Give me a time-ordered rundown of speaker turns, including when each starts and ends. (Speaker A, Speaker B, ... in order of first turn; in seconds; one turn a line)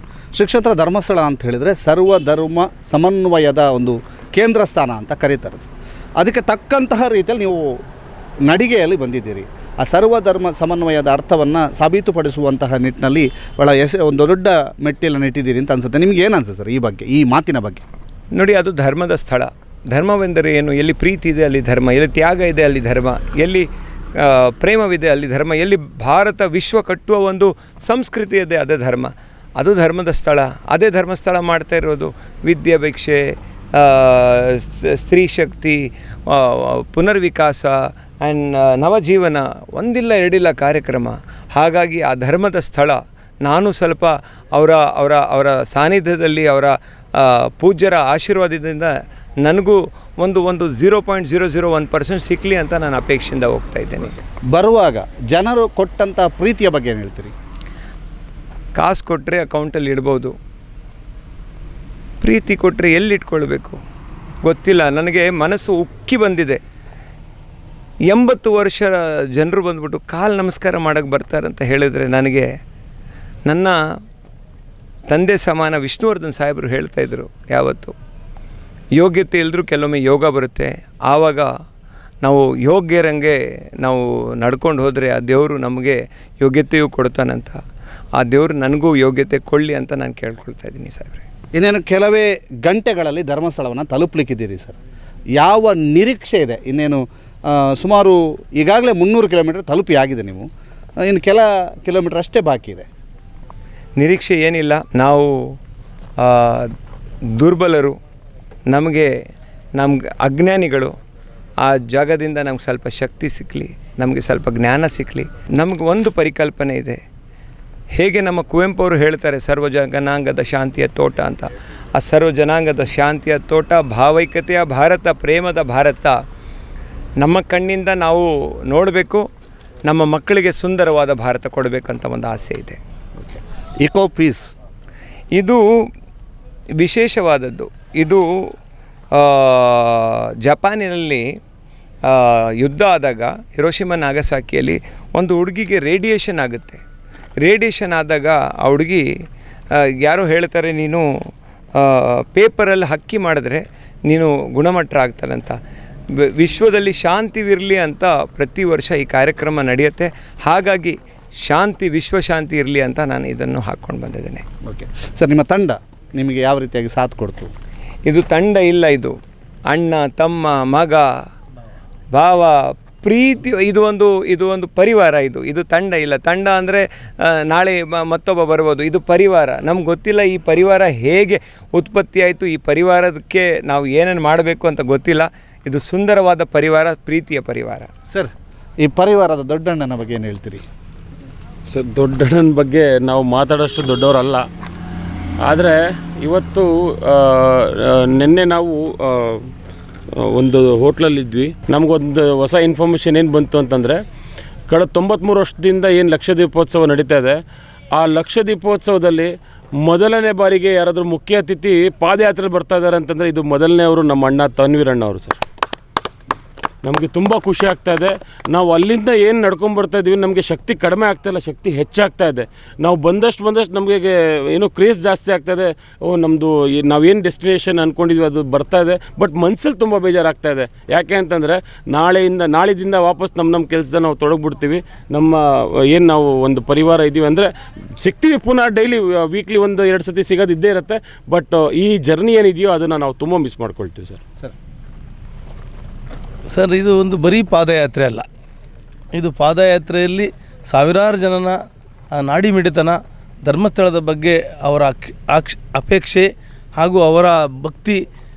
Speaker A: 0.4-7.7
Speaker A: 8.5-17.8
Speaker B: 18.3-48.9
Speaker B: 49.4-54.2
Speaker A: 54.5-57.3
Speaker B: 58.8-60.3
Speaker B: 62.2-63.8
Speaker B: 64.4-66.6
Speaker B: 68.1-72.5
Speaker B: 73.5-73.8
Speaker B: 75.1-77.9
Speaker B: 79.0-81.5
Speaker B: 82.2-87.6
Speaker B: 88.2-91.2
Speaker A: 91.6-94.8
Speaker A: 95.4-100.5
Speaker A: 101.1-102.9
Speaker B: 104.0-105.3
Speaker B: 106.2-106.7
Speaker B: 107.4-108.0
Speaker B: 108.7-109.1
Speaker B: 109.8-110.9
Speaker B: 111.6-117.0
Speaker B: 118.0-126.1
Speaker B: 127.2-129.2
Speaker B: 129.9-132.8
Speaker A: 133.2-134.5
Speaker B: 135.3-135.6
Speaker B: 136.8-138.2
Speaker B: 139.2-141.2
Speaker B: 142.1-146.8
Speaker B: 147.4-149.1
Speaker B: 150.0-151.1
Speaker B: 151.8-155.6
Speaker B: 156.2-164.4
Speaker A: 164.7-167.5
Speaker B: 168.1-169.2
Speaker B: 169.7-171.1
Speaker B: 172.2-187.9
Speaker A: 188.8-190.6
Speaker C: 191.7-194.5
Speaker C: 195.4-199.5
Speaker C: 200.1-204.0
Speaker C: 204.7-207.4
Speaker C: 207.9-215.4
Speaker C: 216.8-244.2
Speaker D: 246.5-248.3
Speaker D: 249.1-251.6
Speaker D: 252.1-258.0